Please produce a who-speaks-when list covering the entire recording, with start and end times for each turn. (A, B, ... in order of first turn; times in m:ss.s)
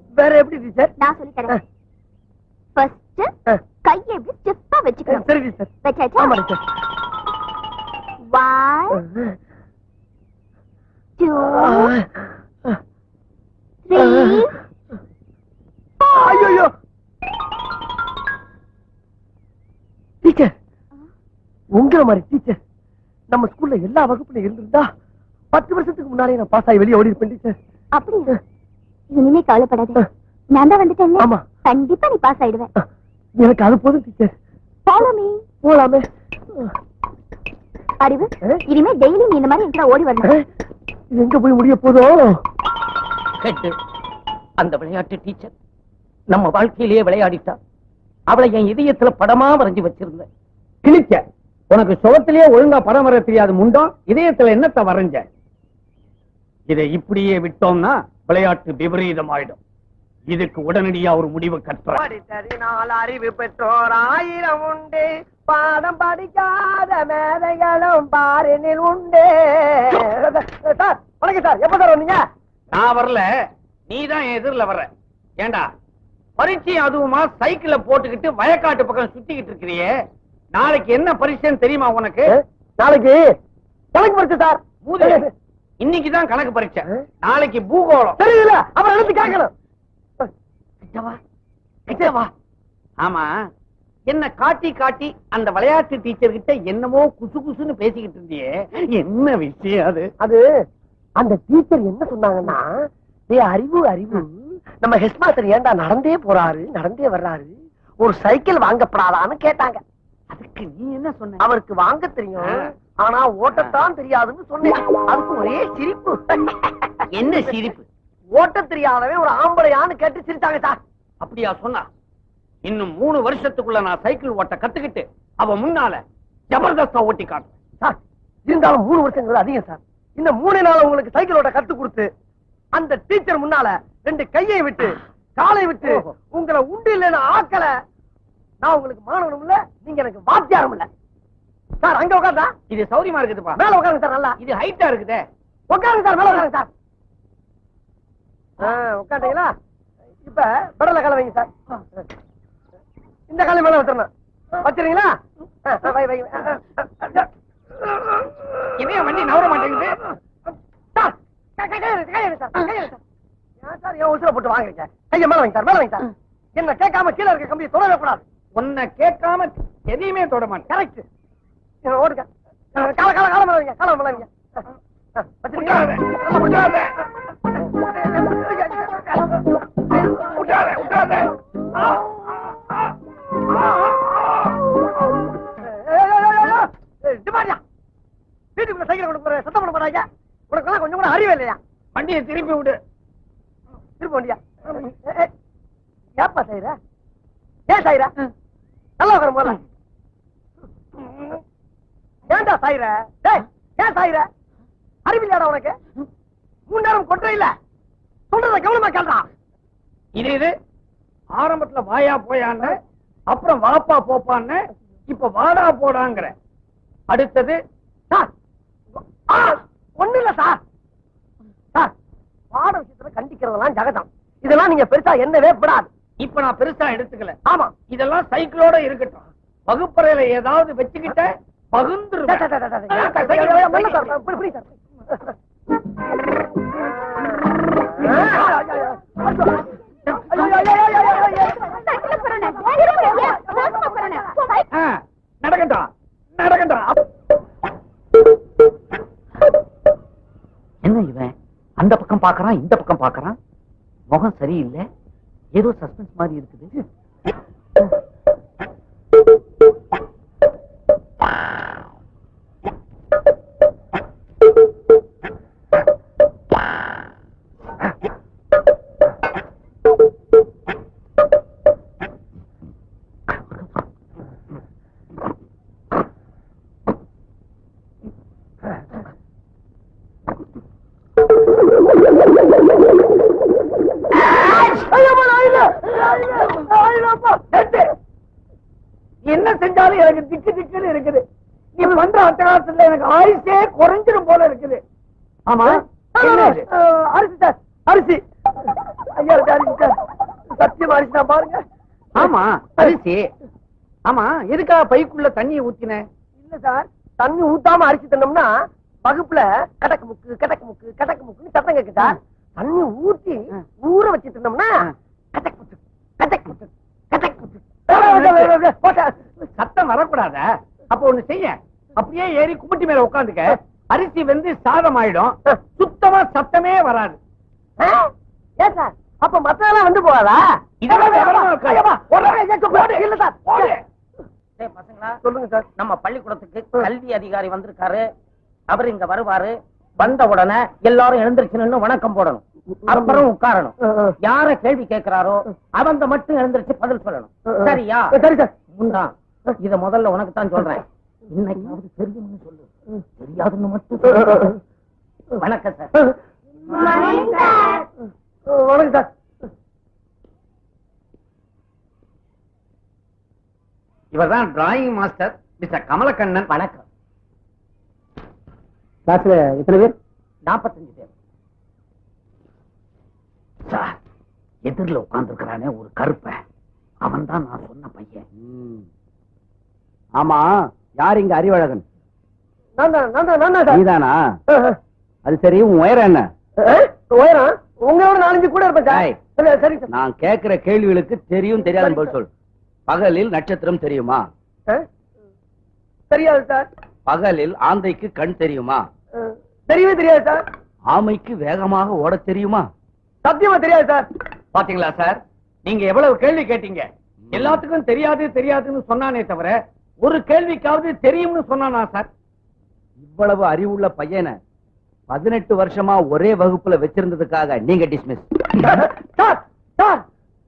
0:00.1-0:00.9 A
0:01.0-0:01.6 B
0:02.7-0:03.3 B
0:03.8-0:05.2 B
0:05.1-0:06.6 A
0:05.8-0:06.4 B
0:08.3-0:09.0 B
0:11.2-0:12.0 B
0:11.5-0:12.0 A
0:13.8-0:14.6 B
0:14.0-0:14.4 A
0:16.0-0:16.7 A
0:20.2-0:20.5 A
0:21.7-0:22.6 A
0:23.3-0:24.9 A
0:25.5-0:27.5 A
0:27.9-0:28.4 B
0:29.1-0:32.7 B
0:31.2-0:31.4 A
0:33.4-0:34.3 A
0:34.8-0:35.4 B
0:35.6-0:36.0 A
0:38.0-0:40.4 B
0:41.1-0:42.4 A
0:43.4-0:43.7 C
0:44.6-0:45.5 C
0:46.3-0:47.6 C
0:48.3-0:50.3 C
0:50.8-0:55.2 D
0:56.7-0:59.6 D
1:00.3-1:02.0 D
1:01.9-1:12.2 A
1:12.7-1:13.2 D
1:13.9-1:15.7 D
1:16.4-1:19.9 D
1:20.5-1:22.3 D
1:22.3-1:23.3 A
1:23.9-1:25.3 A
1:24.8-1:25.2 D
1:25.8-1:28.2 D
1:28.2-1:29.5 A
1:30.8-1:31.2 D
1:31.9-1:32.3 A
1:33.0-1:33.3 D
1:34.1-1:40.1 D
1:41.2-1:42.7 A
1:43.3-1:49.8 A
1:50.3-1:51.4 D
1:51.4-1:56.6 A
1:52.4-1:52.7 D
1:57.1-1:57.8 D
1:58.3-2:00.8 A
2:01.2-2:01.9 D
2:02.6-2:07.5 D
2:07.8-2:12.1 A
2:12.7-2:17.7 A
2:15.8-2:16.1 D
2:18.6-2:20.9 A
2:21.8-2:22.5 A
2:22.7-2:23.6 D
2:23.5-2:24.4 A
2:24.4-2:25.2 D
2:25.7-2:26.7 A
2:28.6-2:29.5 A
2:30.2-2:32.0 A
2:33.3-2:37.3 A
2:37.9-2:38.5 A
2:38.8-2:40.0 D
2:40.9-2:43.0 A
2:43.6-2:48.2 A
2:48.6-2:50.7 D
2:50.7-2:51.0 A
2:51.8-2:54.3 A
2:55.2-2:56.8 A
2:55.6-2:56.9 D
2:57.6-3:00.7 A
3:00.2-3:02.9 D
3:03.5-3:04.6 D
3:05.6-3:07.6 A
3:08.6-3:11.6 A
3:12.0-3:12.8 D
3:14.0-3:15.3 A
3:16.2-3:16.8 A
3:17.7-3:18.1 A
3:19.0-3:19.6 A
3:21.1-3:21.4 A
3:22.3-3:24.3 A
3:25.0-3:25.8 A
3:26.7-3:27.5 A
3:28.3-3:29.3 A
3:30.2-3:30.5 D
3:31.4-3:32.8 D
3:33.3-3:36.3 D
3:37.1-3:37.6 D
3:38.9-3:40.6 A
3:42.5-3:45.9 A
3:46.2-3:47.4 D
3:47.4-3:47.7 A
3:47.9-3:54.2 D
3:52.3-3:55.3 A
3:58.0-3:59.7 A
4:00.1-4:01.1 D
4:00.3-4:01.7 A
4:01.3-4:04.6 B
4:03.1-4:04.1 A
4:04.7-4:06.9 D
4:10.8-4:13.4 D
4:14.1-4:14.8 D
4:15.5-4:16.7 D
4:44.3-4:47.5 A
4:47.5-4:47.9 D
4:49.2-4:51.2 D
4:51.8-4:54.8 D
4:55.5-4:56.6 D
4:56.2-4:58.2 A
4:59.0-5:00.0 A
5:00.5-5:01.6 A
5:02.2-5:03.3 D
5:04.1-5:06.0 D
5:06.4-5:08.5 A
5:09.0-5:19.1 A
5:17.9-5:18.5 D
5:19.6-5:27.2 D
5:27.8-5:31.9 A
5:30.8-5:33.8 D
5:30.8-5:31.6 C
5:32.6-5:33.7 A
5:34.6-5:35.2 C
5:35.2-5:35.7 A
5:35.8-5:38.1 C
5:38.7-5:48.2 C
5:42.9-5:43.2 A
5:43.8-5:44.1 A
5:47.5-5:48.5 A
5:48.7-5:52.6 C
5:53.2-5:54.5 C
5:54.1-5:54.5 A
5:55.4-5:55.9 C
5:56.8-5:57.3 A
5:56.8-5:57.7 C
5:58.5-5:59.1 A
6:04.1-6:06.5 D
6:06.5-6:06.8 C
6:10.4-6:11.1 C
6:13.7-6:13.9 D
6:14.6-6:16.4 D
6:17.0-6:18.2 D
6:18.4-6:18.8 E
6:20.2-6:21.8 E
6:22.8-6:23.8 A
6:23.7-6:24.2 E
6:24.5-6:24.8 A
6:25.2-6:26.3 E
6:26.6-6:29.9 A
6:28.9-6:29.2 E
6:29.9-6:32.3 E
6:31.7-6:32.1 A
6:32.9-6:34.2 E
6:36.1-6:36.7 A
6:37.0-6:38.8 E
6:39.2-6:40.4 A
6:40.9-6:42.7 E
6:43.2-6:44.1 A
6:44.5-6:52.1 D
6:47.3-6:47.6 E
6:53.0-6:54.4 E
6:55.1-6:58.2 E
6:58.6-7:00.0 A